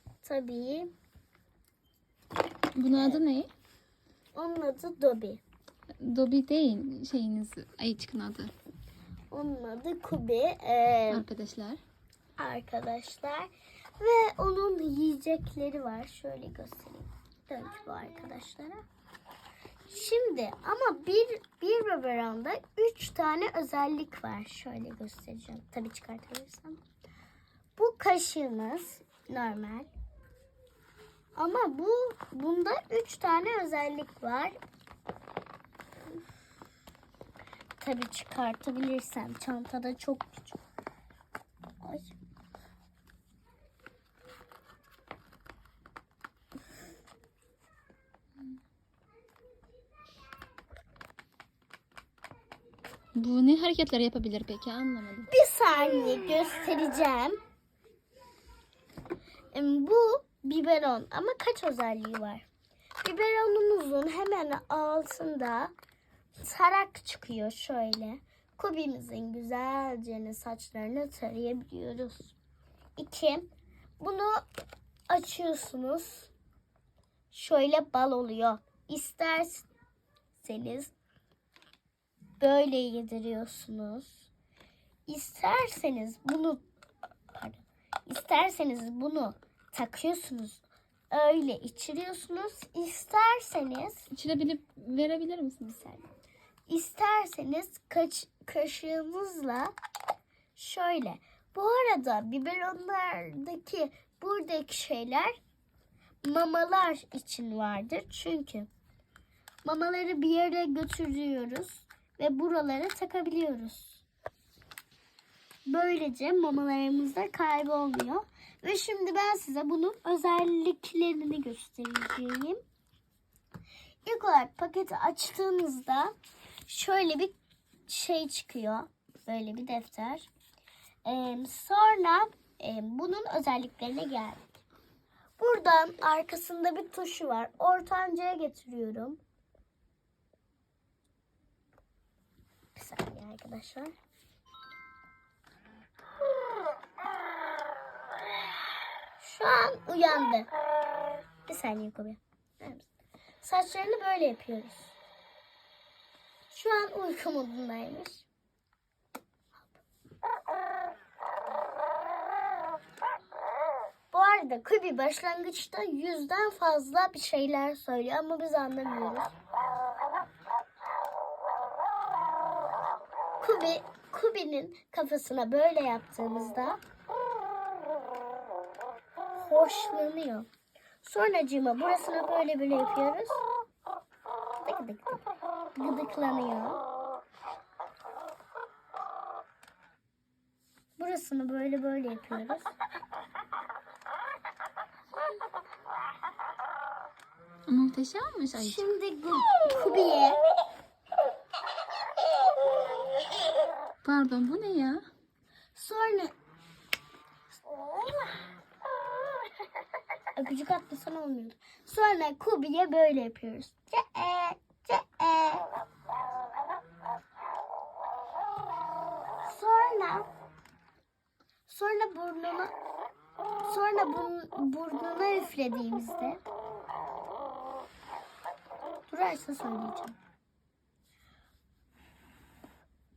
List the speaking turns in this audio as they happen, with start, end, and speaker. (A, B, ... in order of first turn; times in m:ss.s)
0:00.2-0:00.9 A
0:02.8-0:03.5 B
0:02.9-0:03.2 A
0:04.3-0:05.4 A
0:06.0-0:08.5 B
0:09.3-0:11.2 A
0:11.1-0:11.8 B
0:12.4-0:18.8 A
0:19.9-0:26.8 A
0:27.8-0:29.9 A
0:31.3-0:34.6 A
0:37.8-0:40.6 A
0:41.8-0:42.1 A
0:53.2-0:55.3 B
0:55.3-0:57.4 A
0:59.5-1:02.4 A
1:03.0-1:05.7 A
1:06.4-1:12.3 A
1:13.0-1:14.4 A
1:15.1-1:16.3 A
1:17.3-1:19.7 A
1:20.4-1:20.9 A
1:22.4-1:24.3 A
1:25.1-1:26.6 A
1:27.3-1:34.0 A
1:34.1-1:35.9 B
1:36.7-1:39.7 A
1:40.6-1:45.3 A
1:46.2-1:48.7 A
1:49.6-1:54.0 A
1:55.7-2:02.6 A
2:04.0-2:06.1 A
2:06.7-2:07.3 A
2:07.9-2:10.3 A
2:11.0-2:14.5 A
2:15.4-2:19.2 A
2:22.7-2:23.9 A
2:29.2-2:30.5 A
2:31.5-2:32.9 A
2:33.4-2:34.9 A
2:36.5-2:38.2 A
2:39.5-2:39.8 A
2:44.1-2:49.3 A
2:53.4-2:56.8 A
2:59.4-3:00.5 A
3:01.0-3:03.4 A
3:04.6-3:06.8 A
3:11.0-3:12.7 A
3:17.7-3:18.8 B
3:18.5-3:20.4 A
3:24.0-3:25.0 B
3:25.8-3:26.3 A
3:30.4-3:35.7 A
3:39.4-3:40.3 A
3:41.7-3:42.7 A
3:43.6-3:46.4 A
3:49.1-3:50.2 A